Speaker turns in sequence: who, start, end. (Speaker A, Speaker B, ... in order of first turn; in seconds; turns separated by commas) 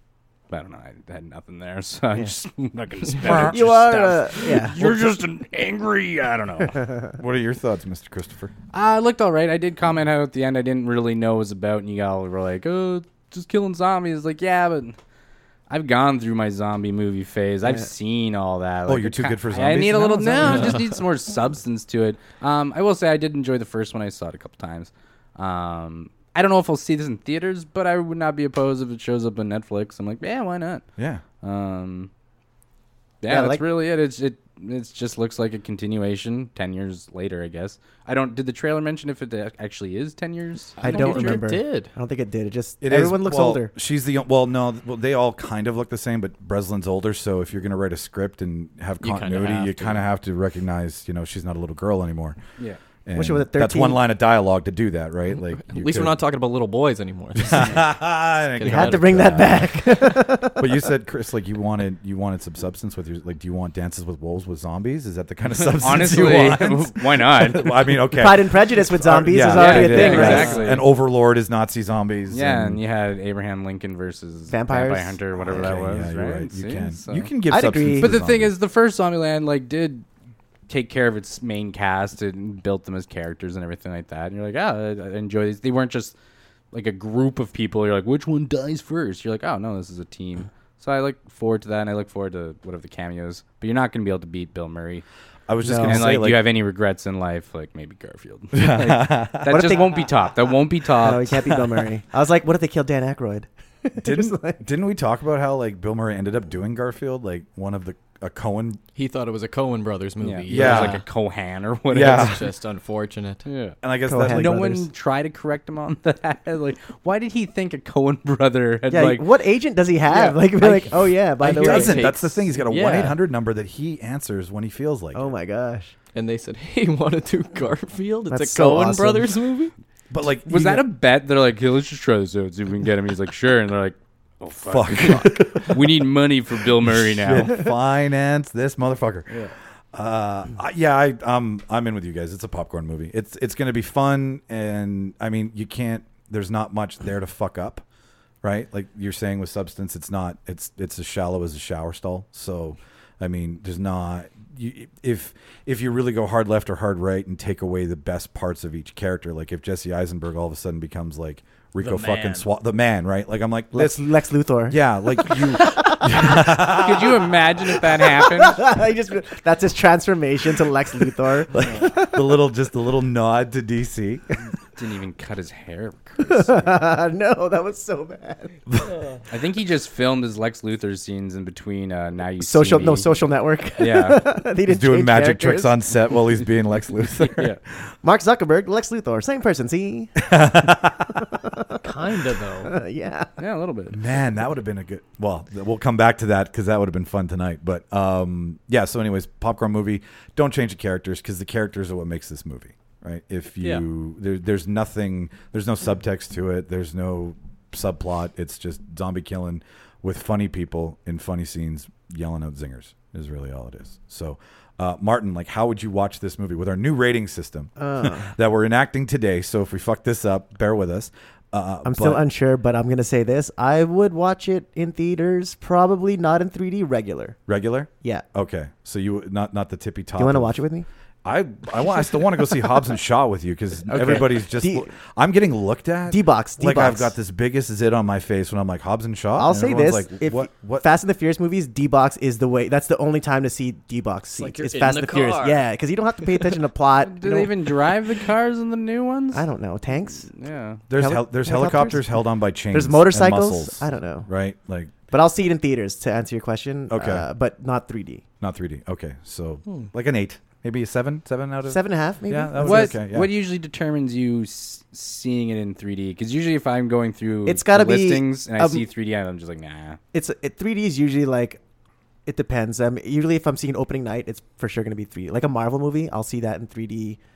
Speaker A: 0.5-6.9, Speaker B: 3.2-4.8, Speaker C: 3.2-3.6, Speaker C: 7.2-8.5, Speaker A: 8.7-15.0, Speaker A: 15.7-30.8, Speaker C: 18.9-20.8, Speaker C: 31.0-31.2, Speaker A: 31.4-32.1, Speaker A: 33.2-41.4, Speaker B: 33.3-33.6, Speaker D: 40.8-41.9, Speaker B: 40.8-43.7, Speaker C: 42.8-52.4, Speaker D: 49.0-50.0, Speaker C: 53.0-56.2, Speaker B: 53.1-54.0, Speaker D: 55.5-57.9, Speaker C: 57.4-59.8, Speaker D: 58.6-59.4, Speaker B: 58.6-60.8, Speaker C: 60.4-72.8, Speaker A: 65.8-67.9, Speaker B: 68.2-70.8, Speaker A: 69.5-70.8, Speaker D: 69.9-70.7, Speaker A: 72.3-80.0, Speaker B: 74.5-75.8, Speaker C: 75.5-78.5, Speaker B: 77.5-78.2, Speaker A: 80.7-86.1, Speaker A: 86.7-95.0, Speaker C: 95.5-96.4, Speaker B: 95.6-96.2, Speaker A: 95.8-101.5, Speaker C: 98.5-99.8, Speaker B: 99.5-104.6, Speaker C: 104.0-108.8, Speaker D: 108.9-111.0, Speaker A: 110.2-112.4, Speaker C: 110.5-111.0, Speaker C: 111.9-112.4, Speaker D: 111.9-113.4, Speaker A: 113.4-119.2, Speaker C: 113.8-114.6, Speaker B: 114.1-114.8, Speaker B: 118.9-122.1, Speaker D: 120.1-123.2, Speaker C: 121.5-125.3, Speaker B: 125.1-125.9, Speaker D: 126.1-129.7, Speaker B: 128.3-129.4, Speaker C: 130.1-130.8, Speaker A: 130.5-137.7, Speaker C: 134.7-136.0, Speaker C: 136.8-139.3, Speaker C: 139.9-147.8, Speaker C: 148.4-164.1, Speaker D: 161.8-162.4, Speaker B: 163.7-166.1, Speaker C: 164.7-167.2, Speaker A: 166.7-168.6, Speaker B: 167.8-172.3, Speaker C: 171.5-174.2, Speaker A: 174.8-176.7, Speaker B: 176.2-178.6, Speaker A: 179.3-183.1, Speaker B: 182.4-185.8, Speaker A: 183.8-184.4, Speaker C: 184.7-187.5, Speaker A: 187.2-187.6, Speaker B: 188.0-190.3, Speaker C: 190.2-191.1, Speaker B: 191.2-191.9, Speaker D: 191.8-192.7, Speaker B: 192.6-193.3, Speaker A: 193.4-194.0, Speaker C: 193.9-222.2, Speaker B: 217.8-218.3, Speaker B: 221.8-227.4, Speaker C: 227.5-230.6, Speaker B: 230.2-230.9, Speaker C: 231.2-240.8, Speaker B: 233.9-234.9, Speaker B: 236.1-237.1, Speaker B: 239.3-247.5, Speaker D: 244.3-245.6, Speaker A: 247.0-249.4, Speaker B: 249.3-250.3, Speaker A: 250.3-250.8, Speaker C: 250.9-254.9, Speaker B: 250.9-252.2, Speaker B: 252.7-254.3, Speaker B: 255.1-258.2, Speaker C: 256.9-257.2, Speaker C: 258.4-263.3, Speaker D: 259.6-259.9, Speaker B: 261.6-263.0, Speaker A: 262.6-270.0, Speaker B: 267.4-268.9, Speaker B: 270.1-271.6, Speaker B: 272.2-277.2